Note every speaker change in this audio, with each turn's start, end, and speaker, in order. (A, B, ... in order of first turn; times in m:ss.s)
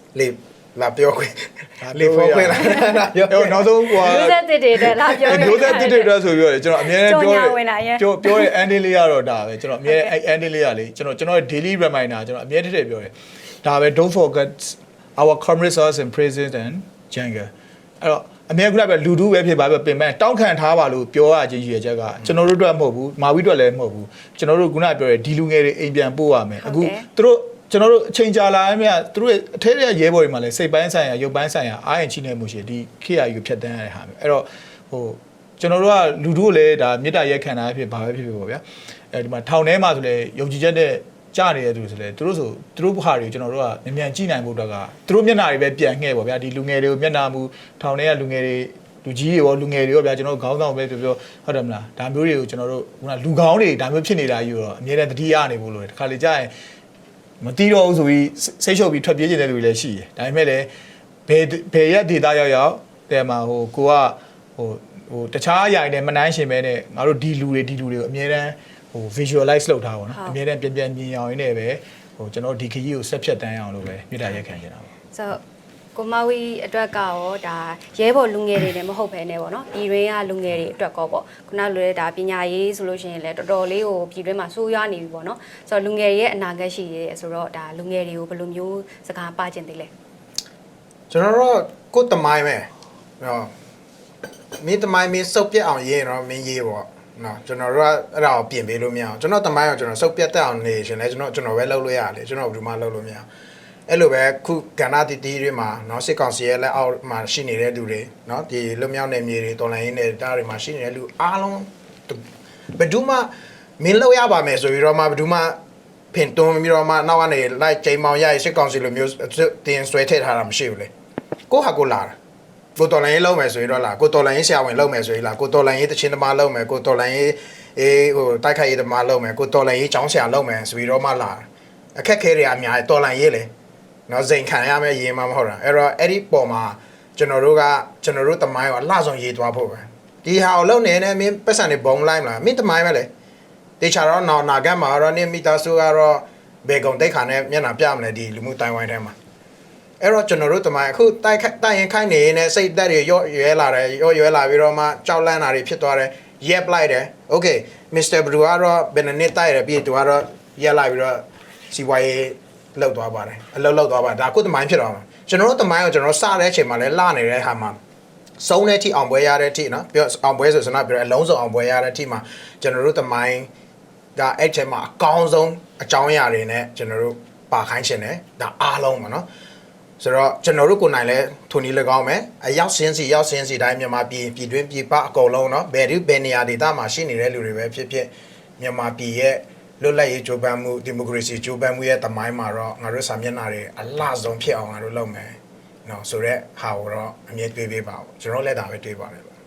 0:00.1-0:04.2 A
0:01.8-0:13.1 B
0:03.9-0:06.2 C
0:06.8-0:08.5 C
0:09.8-0:10.1 C
0:13.6-0:56.5 B
0:26.6-0:27.0 C
0:57.4-1:00.7 B
1:01.3-1:14.9 B
1:10.1-1:10.4 C
1:15.1-1:15.4 C
1:15.9-1:29.9 C
1:31.1-1:32.7 A
1:33.2-1:33.5 A
1:34.6-1:43.2 A
1:43.9-1:52.2 A
1:52.8-1:55.6 A
1:56.1-2:00.9 A
2:01.5-2:02.2 A
2:02.8-2:13.5 A
2:14.1-2:23.1 A
2:23.8-2:29.1 A
2:30.0-2:47.8 A
2:48.4-2:53.5 A
2:54.2-2:59.2 A
3:00.0-3:19.3 A